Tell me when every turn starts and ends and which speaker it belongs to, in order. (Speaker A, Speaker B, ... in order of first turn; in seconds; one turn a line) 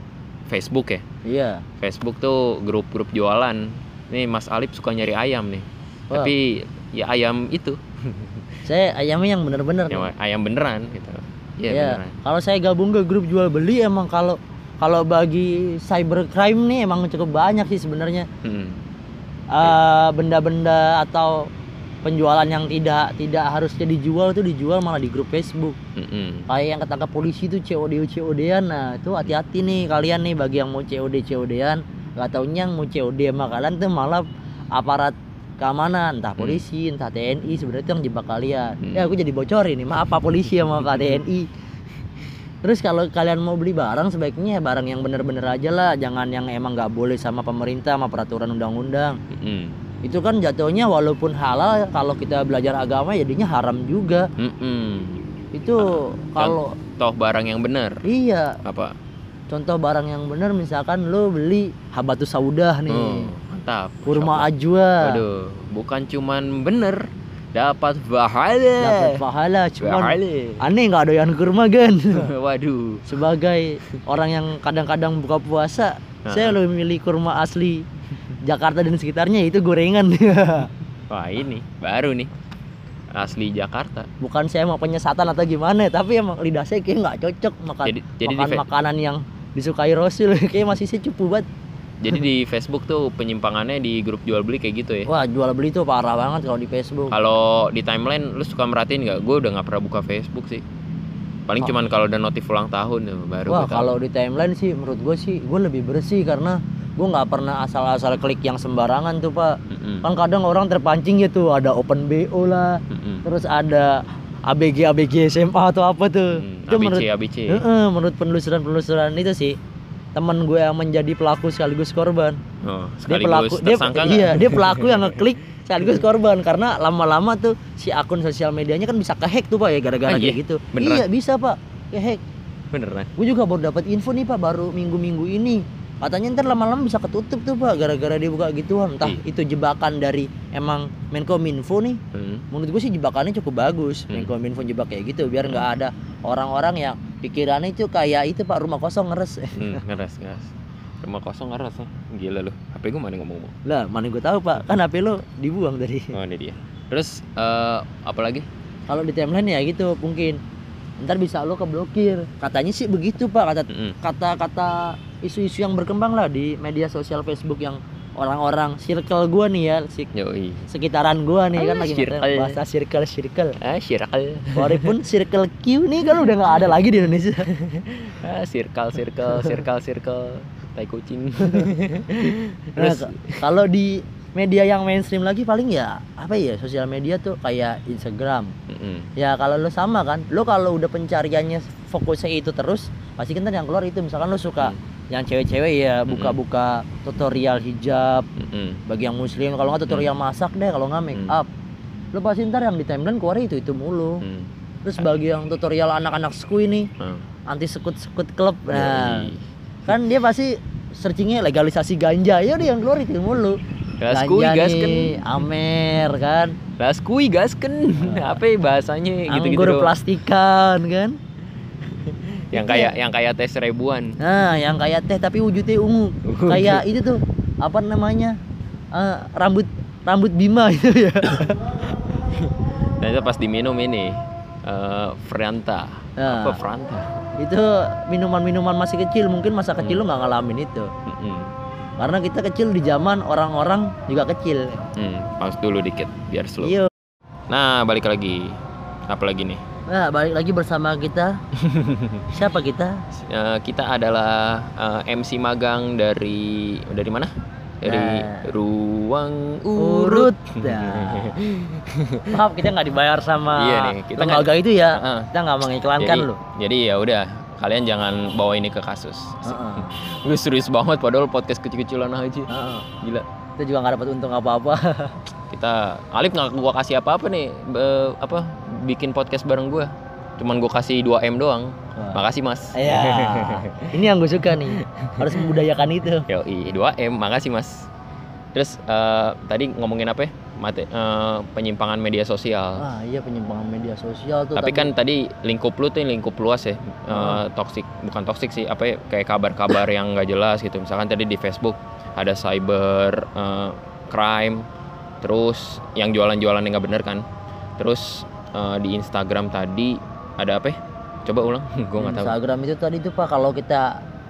Speaker A: 0.5-1.0
Speaker B: 1.2-1.6
Speaker A: 1.8-8.4
Speaker B: 8.6-10.1
Speaker A: 9.9-12.2
Speaker B: 11.7-18.3
Speaker A: 18.4-18.8
Speaker B: 19.5-21.5
Speaker B: 22.0-25.8
Speaker A: 25.9-26.5
Speaker B: 26.5-41.5
Speaker A: 38.8-39.1
Speaker B: 42.6-49.2
Speaker A: 49.3-49.8
Speaker B: 50.0-54.2
Speaker A: 54.4-55.2
Speaker B: 55.5-56.7
Speaker A: 55.8-58.0
Speaker B: 58.0-58.6
Speaker A: 58.6-58.9
Speaker B: 59.5-63.3
Speaker A: 62.9-64.5
Speaker B: 64.0-65.2
Speaker A: 65.0-69.2
Speaker B: 68.8-72.3
Speaker A: 69.8-70.6
Speaker A: 72.1-73.1
Speaker B: 73.1-77.8
Speaker A: 76.2-76.6
Speaker B: 78.4-80.7
Speaker A: 81.1-82.3
Speaker A: 83.1-84.1
Speaker B: 84.2-91.5
Speaker A: 87.8-88.6
Speaker A: 92.0-95.1
Speaker B: 95.1-97.1
Speaker A: 97.1-100.6
Speaker A: 101.5-103.9
Speaker B: 103.5-119.6
Speaker A: 109.7-110.0
Speaker A: 112.9-113.2
Speaker A: 116.3-117.6
Speaker B: 120.1-122.4
Speaker A: 122.6-125.2
Speaker B: 123.1-132.2
Speaker A: 130.1-131.0
Speaker A: 132.7-133.1
Speaker B: 133.2-142.0
Speaker A: 142.1-142.4
Speaker B: 142.5-149.8
Speaker A: 149.5-153.5
Speaker B: 153.6-156.1
Speaker A: 156.1-158.5
Speaker B: 158.9-160.4
Speaker B: 161.0-170.1
Speaker A: 163.7-164.0
Speaker A: 170.1-170.7
Speaker B: 170.7-173.5
Speaker A: 171.5-172.6
Speaker A: 173.6-175.0
Speaker B: 174.6-177.5
Speaker A: 177.5-183.4
Speaker B: 181.4-181.7
Speaker B: 182.8-188.5
Speaker A: 188.7-189.1
Speaker B: 189.2-198.3
Speaker A: 196.1-196.4
Speaker A: 198.4-198.8
Speaker B: 198.9-201.5
Speaker B: 202.1-204.2
Speaker A: 204.2-204.5
Speaker B: 204.8-206.9
Speaker B: 207.5-209.3
Speaker A: 208.7-209.4
Speaker B: 209.8-213.6
Speaker A: 214.0-215.1
Speaker B: 214.1-216.6
Speaker A: 216.8-219.9
Speaker B: 218.0-218.4
Speaker B: 219.3-221.2
Speaker A: 221.9-224.2
Speaker B: 222.5-222.9
Speaker B: 224.2-228.3
Speaker A: 226.2-226.9
Speaker B: 228.9-231.9
Speaker A: 232.3-237.2
Speaker B: 236.2-236.6
Speaker B: 237.4-240.9
Speaker A: 241.1-241.5
Speaker B: 242.0-244.8
Speaker A: 244.9-246.8
Speaker B: 246.6-246.9
Speaker A: 247.5-248.6
Speaker A: 249.1-249.6
Speaker B: 249.9-251.4
Speaker A: 251.6-252.3
Speaker B: 252.3-253.0
Speaker A: 253.1-257.3
Speaker A: 257.8-262.4
Speaker B: 257.8-258.5
Speaker B: 259.8-261.4
Speaker B: 262.3-266.4
Speaker A: 263.5-265.3
Speaker A: 266.0-273.2
Speaker B: 269.4-270.0
Speaker B: 272.5-272.9
Speaker B: 273.6-275.2
Speaker A: 275.5-284.0
Speaker B: 282.7-286.2
Speaker A: 284.7-285.5
Speaker A: 286.3-287.9
Speaker A: 288.5-292.8
Speaker B: 292.8-294.9
Speaker A: 294.5-304.6
Speaker B: 297.1-297.4
Speaker A: 305.2-307.2
Speaker A: 307.8-312.3
Speaker B: 312.0-314.0